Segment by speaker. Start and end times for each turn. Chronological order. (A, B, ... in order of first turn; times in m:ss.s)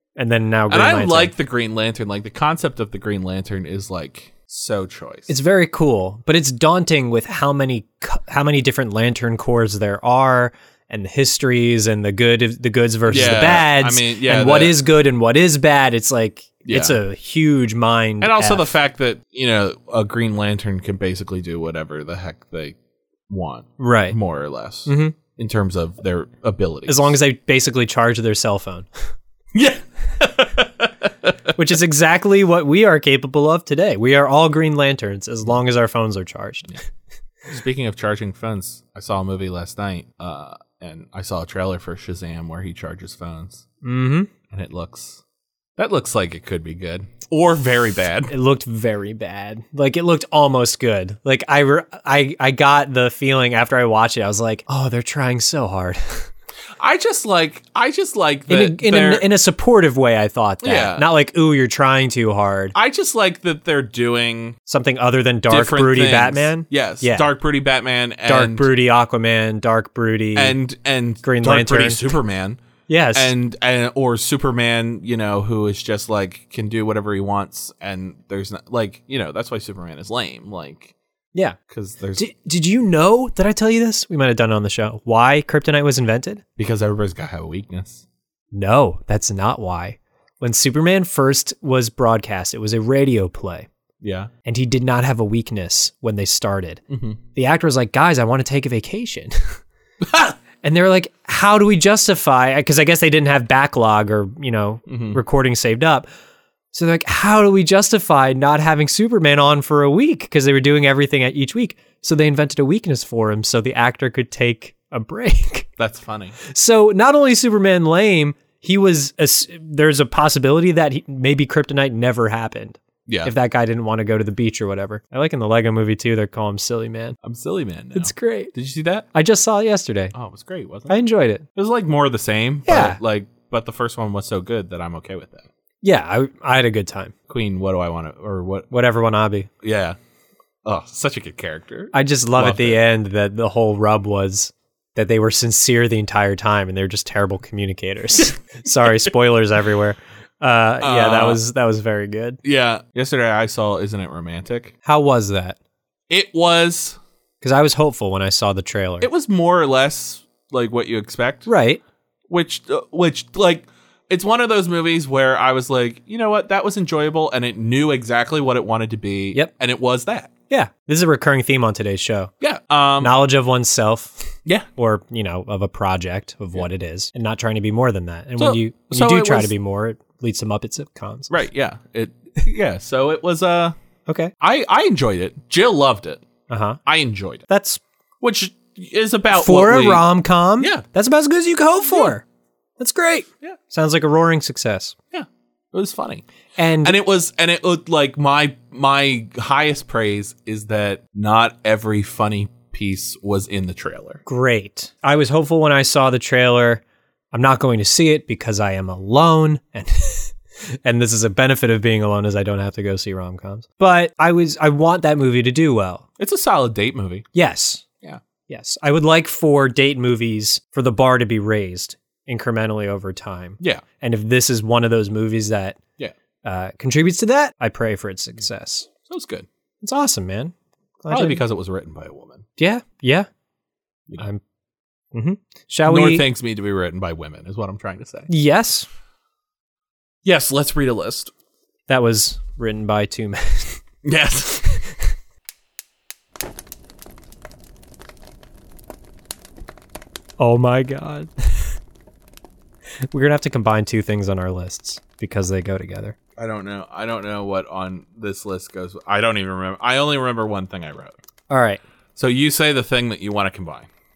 0:00.2-0:01.3 A
0:00.7-0:05.3 B
0:05.3-0:18.8 A
0:13.1-0:14.8 B
0:16.7-0:17.0 B
0:18.2-0:22.8 B
0:23.3-0:27.1 B
0:23.8-0:24.2 A
0:24.9-0:25.2 A
0:26.9-0:28.9 A
0:29.5-0:31.3 B
0:31.6-0:36.8 A
0:37.5-0:43.6 B
0:43.8-0:44.3 A
0:44.5-0:45.2 B
0:45.8-0:48.3 B
0:48.3-0:56.3 A
0:56.8-0:59.3 B
0:58.5-1:02.8 A
1:00.6-1:01.1 B
1:02.8-1:04.6 B
1:04.7-1:07.3 A
1:05.5-1:08.7 B
1:08.3-1:10.6 A
1:10.4-1:12.6 B
1:11.2-1:12.2 A
1:12.9-1:13.3 A
1:13.2-1:20.9 B
1:21.7-1:22.2 B
1:22.2-1:26.4 A
1:26.6-1:28.0 B
1:28.5-1:33.7 A
1:34.0-1:34.3 B
1:34.4-1:36.8 A
1:36.9-1:37.2 B
1:37.3-1:39.6 A
1:40.0-1:40.4 B
1:40.6-1:46.1 A
1:44.9-1:45.2 B
1:46.7-1:55.7 A
1:55.8-1:56.4 B
1:56.4-2:07.2 A
2:03.1-2:03.3 B
2:07.2-2:09.1 B
2:08.0-2:08.5 A
2:09.1-2:10.1 A
2:10.1-2:11.0 B
2:10.9-2:11.5 A
2:11.6-2:15.5 B
2:12.7-2:13.0 A
2:15.8-2:17.1 A
2:17.3-2:18.7 B
2:18.7-2:19.5 A
2:19.6-2:20.0 B
2:20.6-2:22.8 B
2:21.9-2:32.4 A
2:30.8-2:31.4 B
2:32.4-2:34.7 B
2:34.8-2:35.6 A
2:36.1-2:37.0 B
2:37.4-2:39.1 A
2:39.0-2:41.5 B
2:41.5-2:41.8 A
2:42.3-2:50.3 B
2:50.5-2:52.3 A
2:52.4-2:53.1 B
2:53.0-3:01.3 A
2:58.4-2:59.5 B
3:01.3-3:03.8 B
3:04.1-3:04.3 A
3:04.4-3:06.2 B
3:06.5-3:06.8 A
3:06.9-3:07.4 B
3:07.5-3:07.8 A
3:08.2-3:10.0 B
3:09.3-3:12.2 A
3:10.6-3:10.8 B
3:12.8-3:15.0 A
3:15.1-3:16.2 B
3:16.6-3:17.0 A
3:16.8-3:24.2 B
3:24.3-3:36.0 A
3:36.2-3:37.3 B
3:37.3-3:37.9 A
3:38.5-3:45.8 A
3:46.4-3:48.9 A
3:49.1-3:49.5 B
3:49.8-3:51.4 A
3:51.1-3:52.4 B
3:52.6-3:53.3 A
3:55.1-3:56.2 A
3:55.8-3:58.3 B
3:58.3-3:58.9 A
4:00.2-4:01.3 B
4:01.9-4:03.8 A
4:04.0-4:04.8 B
4:10.4-4:11.8 A
4:13.1-4:16.2 A
4:16.4-4:21.2 B
4:21.5-4:21.8 A
4:22.2-4:23.9 B